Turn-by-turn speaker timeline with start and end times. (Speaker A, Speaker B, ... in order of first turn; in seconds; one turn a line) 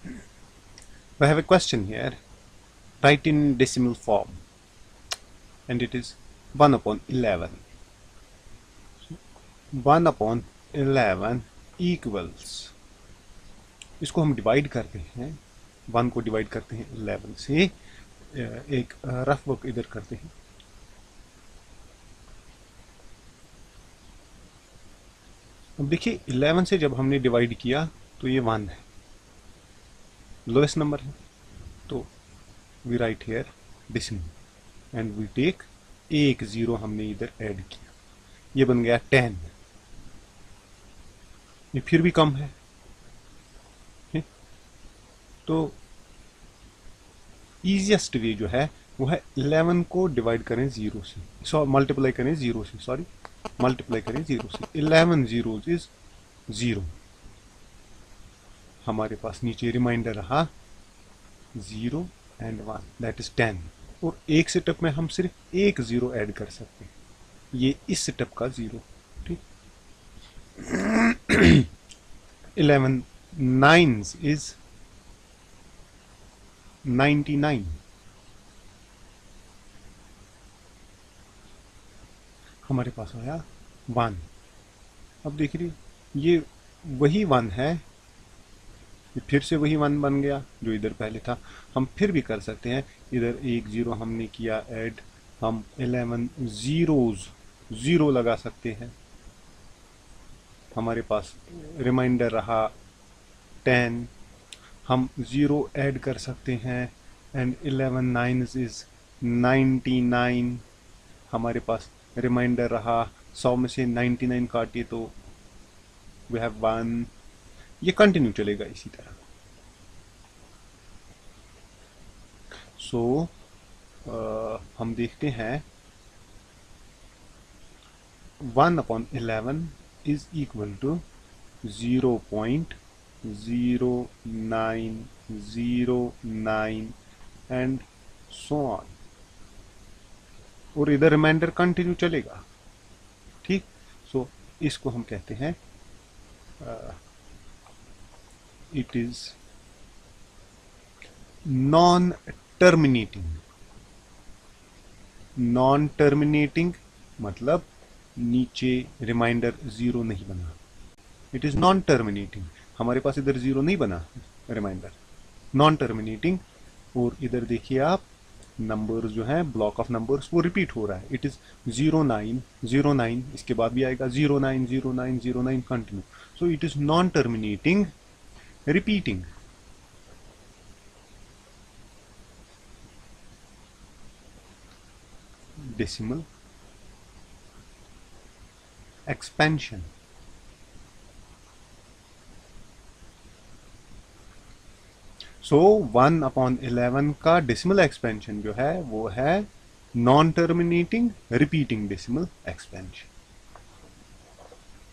Speaker A: 1.2-2.2
Speaker A: 3.0-4.4
Speaker A: 5.7-7.6
Speaker A: 9.7-12.7
Speaker A: 14.0-17.7
Speaker A: 18.3-20.3
Speaker A: 25.8-28.8
Speaker A: 30.5-31.1
Speaker A: 32.8-34.3
Speaker A: 34.9-37.9
Speaker A: 38.5-39.5
Speaker A: 41.7-42.5
Speaker A: 45.5-45.8
Speaker A: 47.6-53.1
Speaker A: 53.6-55.9
Speaker A: 56.5-56.9
Speaker A: 58.8-60.5
Speaker A: 61.5-66.9
Speaker A: 67.5-69.4
Speaker A: 70.6-71.7
Speaker A: 72.6-74.6
Speaker A: 76.8-77.8
Speaker A: 82.6-84.2
Speaker A: 85.2-87.8
Speaker A: 89.2-98.9
Speaker A: 100.7-102.7
Speaker A: 103.7-104.1
Speaker A: 104.9-110.6
Speaker A: 111.3-115.1
Speaker A: 116.3-117.1
Speaker A: 117.8-119.2
Speaker A: 122.8-123.3
Speaker A: 124.0-125.6
Speaker A: 128.4-131.0
Speaker A: 131.6-136.9
Speaker A: 137.5-138.9
Speaker A: 140.8-142.4
Speaker A: 143.4-145.6
Speaker A: 146.6-147.0
Speaker A: 148.7-149.4
Speaker A: 151.4-153.4
Speaker A: 155.4-160.6
Speaker A: 161.3-165.0
Speaker A: 165.5-166.4
Speaker A: 166.9-168.0
Speaker A: 168.6-177.9
Speaker A: 178.7-179.3
Speaker A: 185.6-186.3
Speaker A: 189.1-189.9
Speaker A: 195.4-203.1